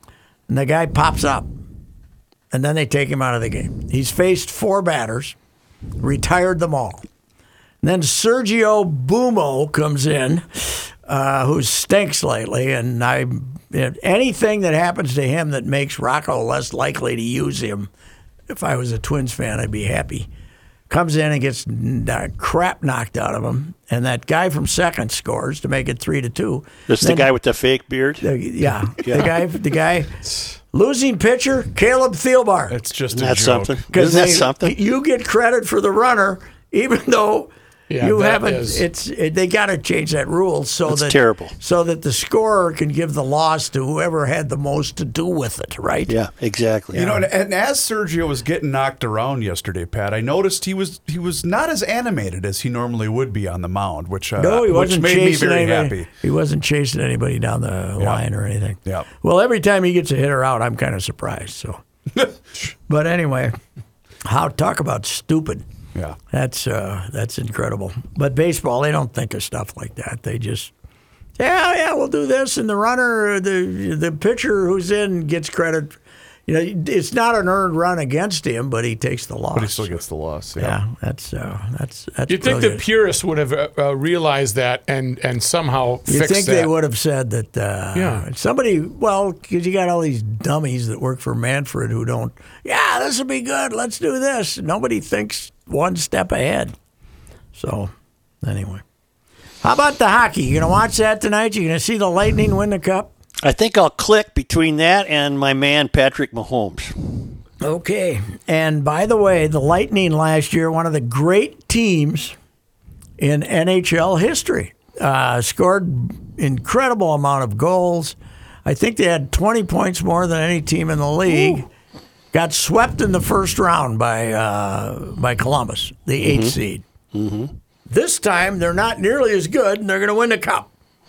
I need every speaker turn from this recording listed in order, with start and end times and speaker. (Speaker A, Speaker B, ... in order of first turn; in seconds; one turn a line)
Speaker A: 0.5-1.5
Speaker A: 2.5-5.4
Speaker A: 6.0-7.0
Speaker A: 7.8-17.9
Speaker A: 18.5-20.3
Speaker A: 20.9-27.3
Speaker B: 26.9-28.3
Speaker A: 28.2-30.2
Speaker A: 30.7-32.8
Speaker C: 32.7-33.8
Speaker B: 33.1-34.8
Speaker A: 33.9-46.1
Speaker D: 37.9-38.9
Speaker B: 40.9-41.5
Speaker B: 46.1-47.2
Speaker C: 46.9-56.1
Speaker A: 54.4-61.8
Speaker A: 62.9-63.6
Speaker A: 64.2-65.6
Speaker A: 66.3-70.7
Speaker A: 71.4-80.0
Speaker C: 79.5-80.8
Speaker A: 80.6-82.8
Speaker D: 82.3-86.7
Speaker A: 86.1-96.7
Speaker D: 88.0-88.2
Speaker A: 97.5-97.9
Speaker A: 98.4-98.8
Speaker A: 99.6-103.1
Speaker B: 103.4-107.0
Speaker A: 107.6-112.4
Speaker A: 113.2-121.7
Speaker B: 121.3-121.6
Speaker A: 122.3-126.8
Speaker B: 126.2-126.6
Speaker B: 127.1-127.5
Speaker A: 127.9-130.7